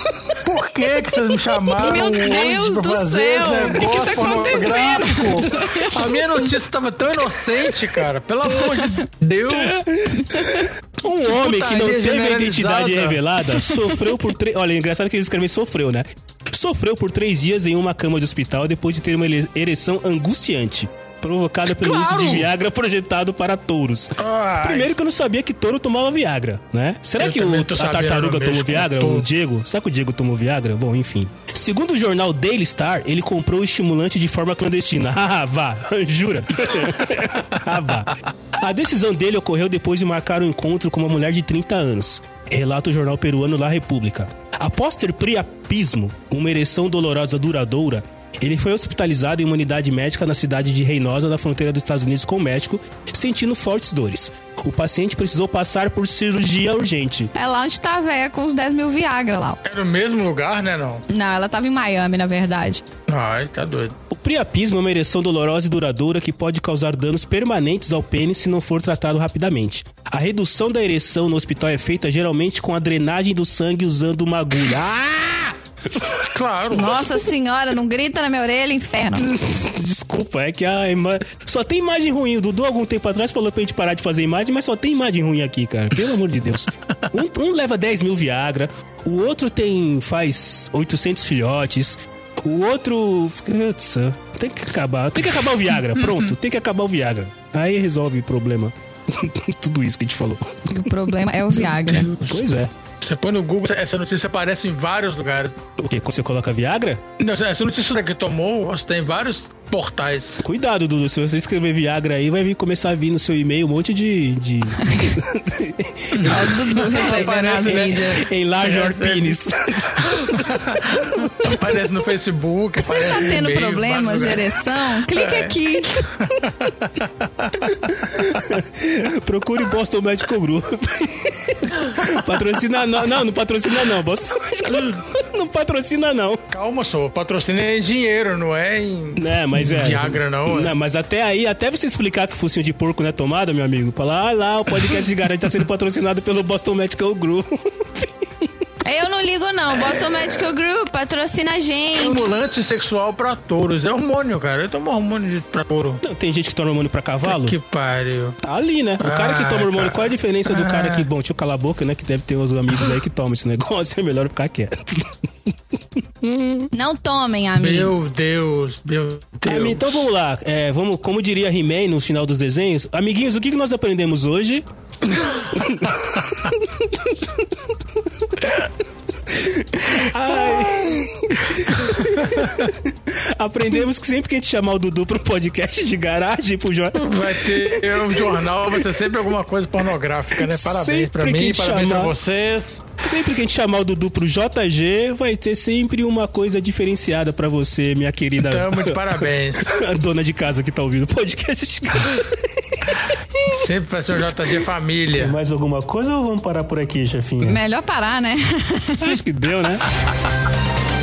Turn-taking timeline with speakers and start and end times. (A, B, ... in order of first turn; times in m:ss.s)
0:00.4-0:09.8 A
0:01.8-0:06.5 B
0:08.5-0:09.0 B
0:09.5-0:57.3 C
0:10.3-0:10.7 B
0:11.2-0:13.2 A
0:13.5-0:14.1 B
0:21.7-0:22.5 A
0:24.2-0:24.9 A
0:27.2-0:29.3 A
0:57.3-0:59.6 B
0:59.6-1:01.0 A
1:01.1-1:02.8 B
1:03.1-1:04.0 A
1:04.1-1:16.1 C
1:16.0-1:17.0 A
1:16.7-1:19.3 B
1:19.2-1:41.1 C
1:36.0-1:36.2 A
1:40.7-1:42.1 B
1:42.1-1:42.7 C
1:43.0-1:45.6 A
1:45.8-1:47.0 C
1:47.2-1:50.4 A
1:50.4-2:01.7 C
1:54.8-1:55.2 B
1:56.1-2:08.5 A
1:56.2-1:58.2 B
2:02.8-2:06.1 B
2:07.7-2:16.4 C
2:16.5-2:20.7 A
2:19.2-2:28.5 C
2:28.8-2:32.2 B
2:32.0-2:36.0 A
2:36.0-2:37.6 C
2:37.2-2:38.4 A
2:38.4-2:46.7 C
2:39.0-2:41.1 A
2:46.7-2:47.9 B
2:47.6-2:50.0 A
2:49.4-2:57.7 C
2:55.2-2:56.3 A
2:58.4-2:58.7 A
2:59.3-3:09.0 C
3:00.0-3:02.7 A
3:07.0-3:12.8 A
3:10.4-3:12.1 C
3:13.0-3:23.6 C
3:18.4-3:19.8 A
3:23.4-3:25.4 A
3:25.1-3:27.6 C
3:27.4-3:29.2 B
3:29.0-3:29.8 C